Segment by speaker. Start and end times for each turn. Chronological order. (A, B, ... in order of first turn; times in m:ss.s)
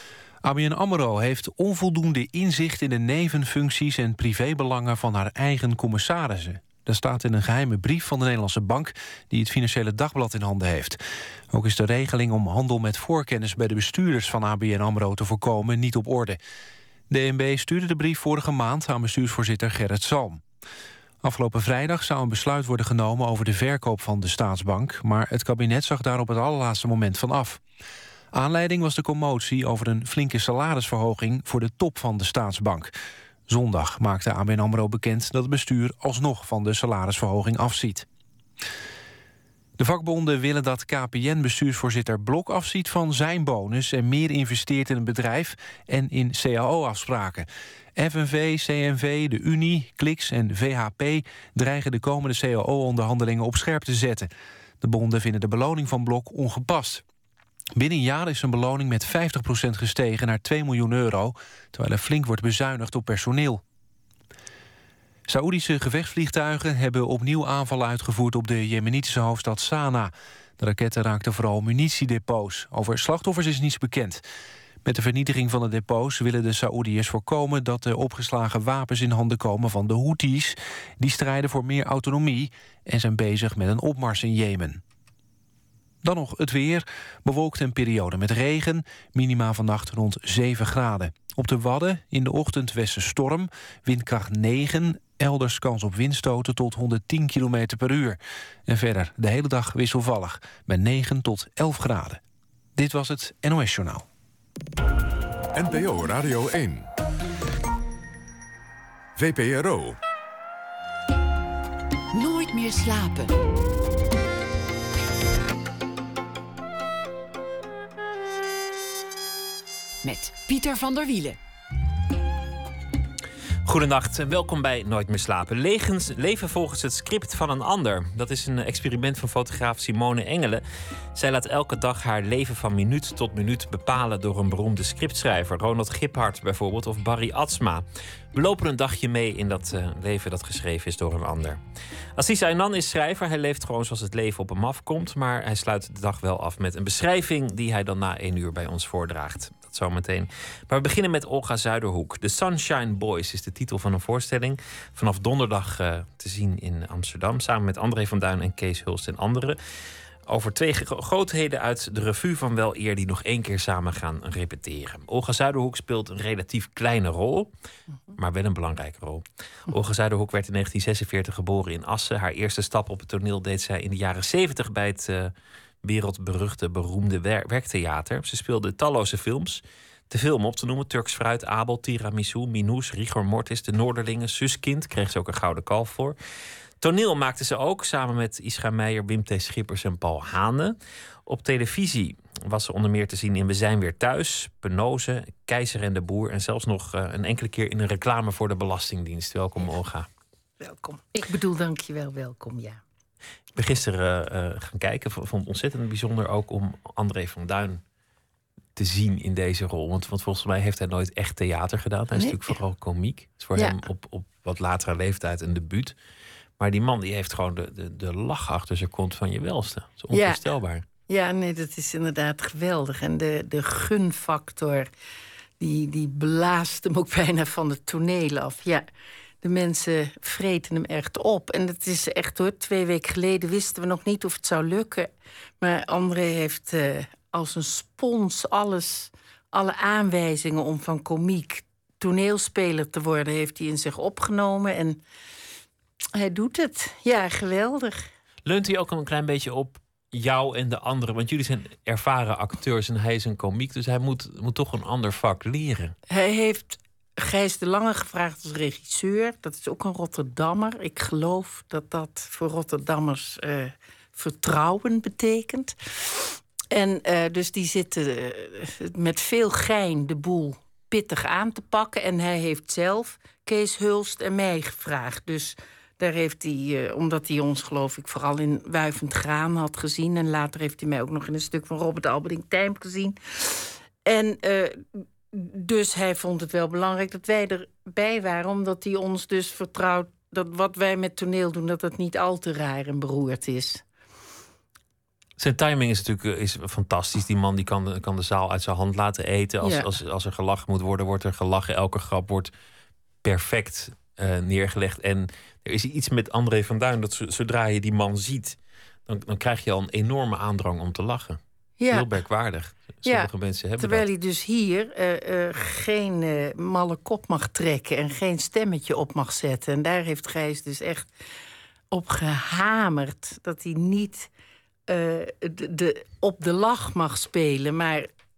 0:00.4-0:11.0 A
0:11.5-0:16.4 A
0:17.1-0:20.4 A
0:21.2-0:27.6 A
0:28.3-0:32.9 A
0:33.5-0:38.1 A
0:39.8-0:54.3 A
0:54.8-0:57.0 A
0:57.8-1:03.6 A
1:05.3-1:14.2 A
1:14.8-1:24.8 A
1:26.0-1:42.2 A
1:42.8-1:44.0 A
1:45.5-1:46.9 B
1:49.2-1:50.0 B
1:52.1-1:53.4 C
2:00.0-2:01.4 C
2:03.7-2:10.6 D
2:11.2-2:21.6 D
2:22.2-2:39.6 D
2:40.3-2:47.5 D
2:48.2-3:06.2 D
3:06.8-3:10.8 D
3:11.3-3:20.1 D
3:20.6-3:22.8 E
3:23.6-3:27.8 D
3:28.8-3:35.9 D
3:32.2-3:32.6 E
3:36.6-3:40.8 D
3:40.1-3:40.4 E
3:41.1-3:44.9 E
3:45.6-3:48.8 E
3:49.4-3:55.1 E
3:55.6-4:05.0 E
4:06.1-4:08.1 E
4:08.5-4:15.9 D
4:16.1-4:53.8 E
4:55.4-5:02.5 D
4:59.6-4:59.9 E
5:03.2-5:14.0 D
5:11.8-5:12.1 E
5:13.0-5:21.1 E
5:21.9-5:24.3 E
5:24.9-5:28.1 E